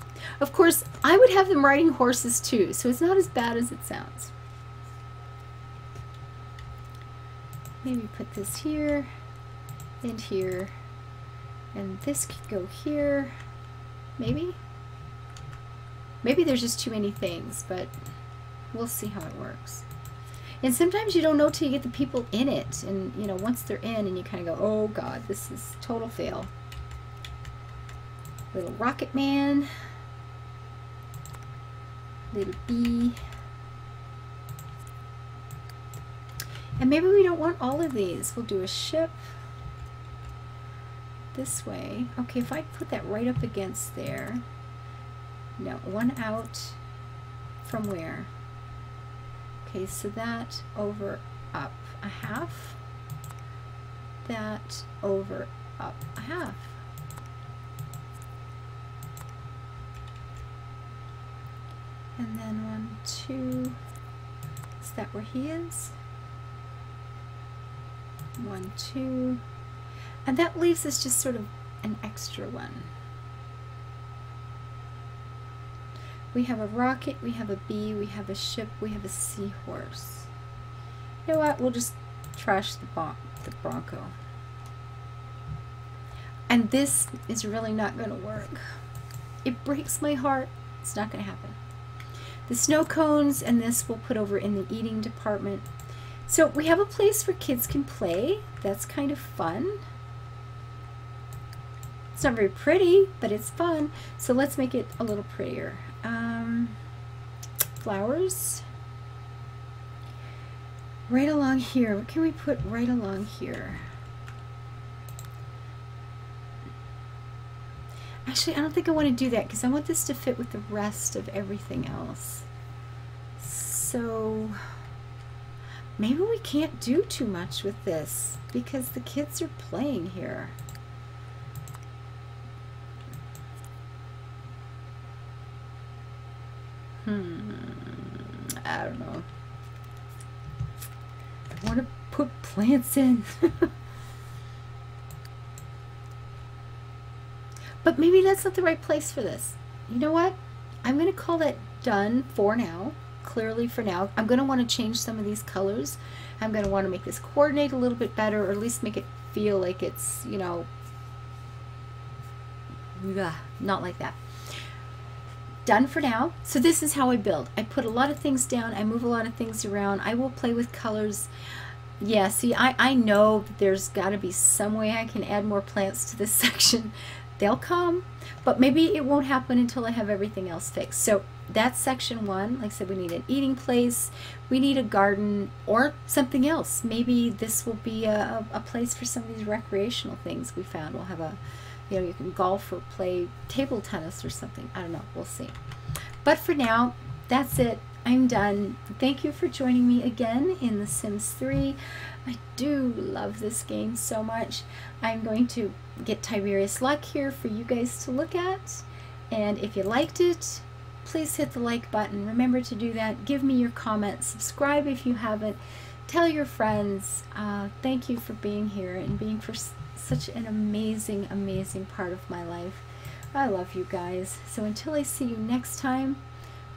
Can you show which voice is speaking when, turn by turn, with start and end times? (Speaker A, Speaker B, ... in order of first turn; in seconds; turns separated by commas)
Speaker A: 0.4-4.3, Speaker A: 7.8-9.1, Speaker A: 10.0-10.7, Speaker A: 11.7-13.3, Speaker A: 14.2-14.6, Speaker A: 16.2-17.9, Speaker A: 18.7-19.9, Speaker A: 20.6-26.5, Speaker A: 28.5-29.7, Speaker A: 32.3-33.2, Speaker A: 36.8-39.2, Speaker A: 41.3-44.4, Speaker A: 45.6-46.8, Speaker A: 47.6-48.3, Speaker A: 49.6-52.8, Speaker A: 54.2-56.8, Speaker A: 62.2-63.8, Speaker A: 64.8-65.9, Speaker A: 68.4-69.4, Speaker A: 70.2-72.9, Speaker A: 76.3-80.3, Speaker A: 81.2-84.1, Speaker A: 86.5-88.6, Speaker A: 89.4-91.6, Speaker A: 92.5-95.7, Speaker A: 96.2-99.8, Speaker A: 102.1-106.8, Speaker A: 107.8-108.7, Speaker A: 111.1-113.9, Speaker A: 118.2-122.5, Speaker A: 123.4-124.6, Speaker A: 126.0-130.6, Speaker A: 137.0-139.2, Speaker A: 141.5-143.7, Speaker A: 147.8-160.7, Speaker A: 162.9-164.2, Speaker A: 165.7-171.3, Speaker A: 172.0-195.6, Speaker A: 196.2-226.2